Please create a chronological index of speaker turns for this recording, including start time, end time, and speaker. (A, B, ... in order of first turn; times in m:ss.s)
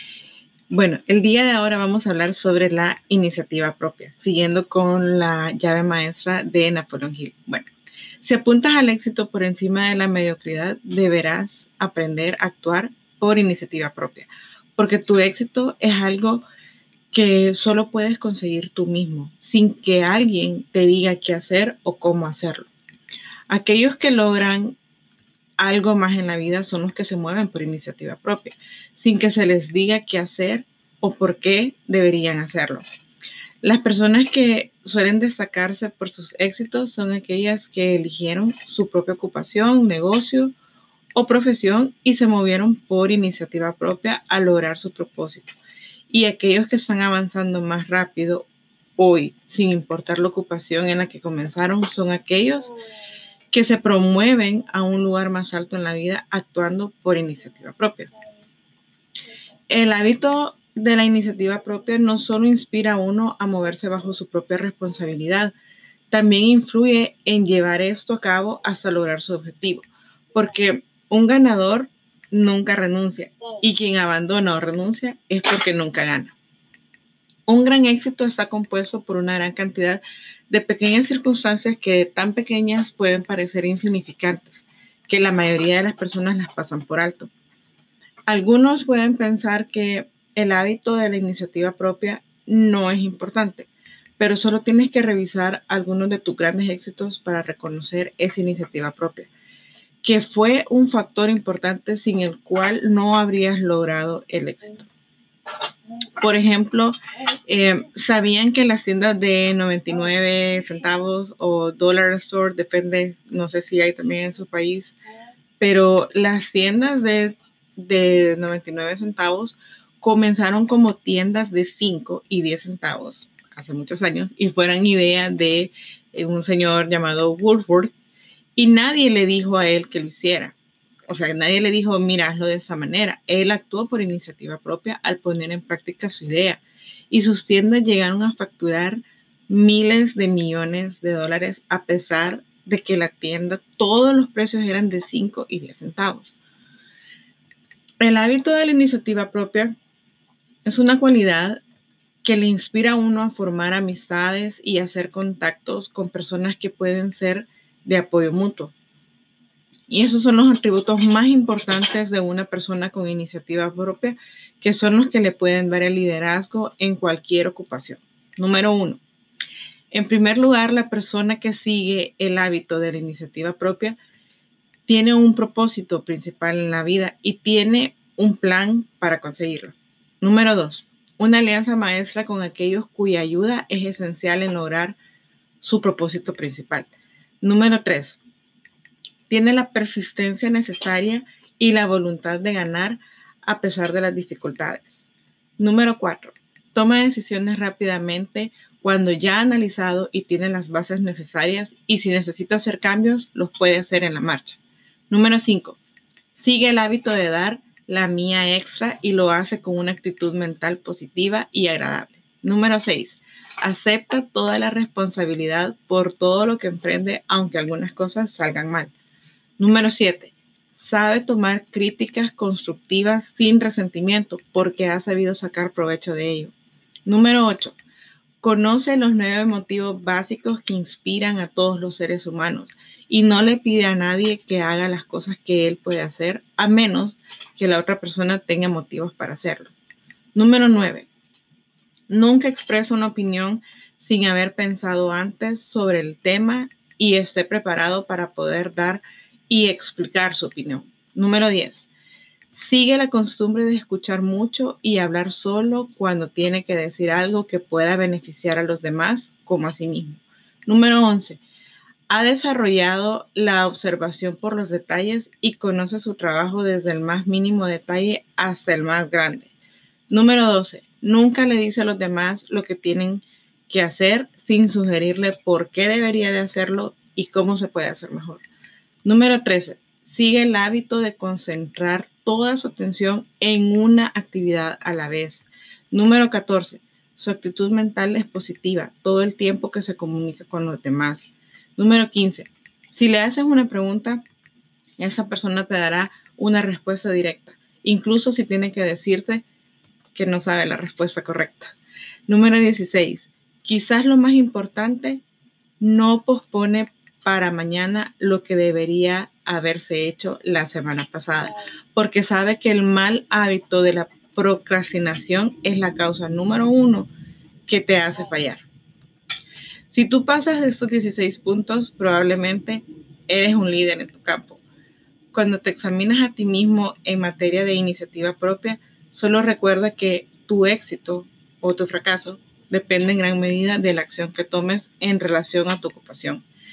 0:00.7-0:07.7 A
0:08.2-0:16.4 A
0:17.1-0:22.7 A
0:23.5-0:24.8 A
0:25.6-0:32.8 A
0:33.6-0:40.5 A
0:41.1-0:45.5 A
0:46.1-0:48.4 A
0:49.0-0:52.7 A
0:53.5-0:58.1 A
0:59.7-1:05.5 A
1:06.1-1:16.3 A
1:17.5-1:27.3 A
1:28.3-1:39.3 A
1:40.0-1:44.9 A
1:46.2-1:55.0 A
1:55.6-2:07.9 A
2:08.6-2:10.5 A
2:11.1-2:26.3 A
2:28.0-2:29.7 A
2:30.6-2:31.6 A
2:32.2-2:38.7 A
2:39.9-2:49.0 A
2:49.9-2:54.0 A
2:54.9-3:05.0 A
3:05.6-3:06.9 A
3:07.4-3:08.2 A
3:09.3-3:15.1 A
3:15.6-3:24.6 A
3:25.1-3:25.8 A
3:26.4-3:38.9 A
3:39.6-3:46.5 A
3:47.0-3:47.8 A
3:48.4-3:59.7 A
4:00.3-4:01.1 A
4:02.1-4:11.9 A
4:12.5-4:21.4 A
4:22.1-4:29.5 A
4:30.1-4:38.4 A
4:39.0-4:54.2 A
4:55.0-4:59.4 A
5:00.1-5:01.7 A
5:02.3-5:05.2 A
5:05.8-5:17.1 A
5:17.7-5:18.6 A
5:19.9-5:24.6 A
5:25.3-5:36.4 A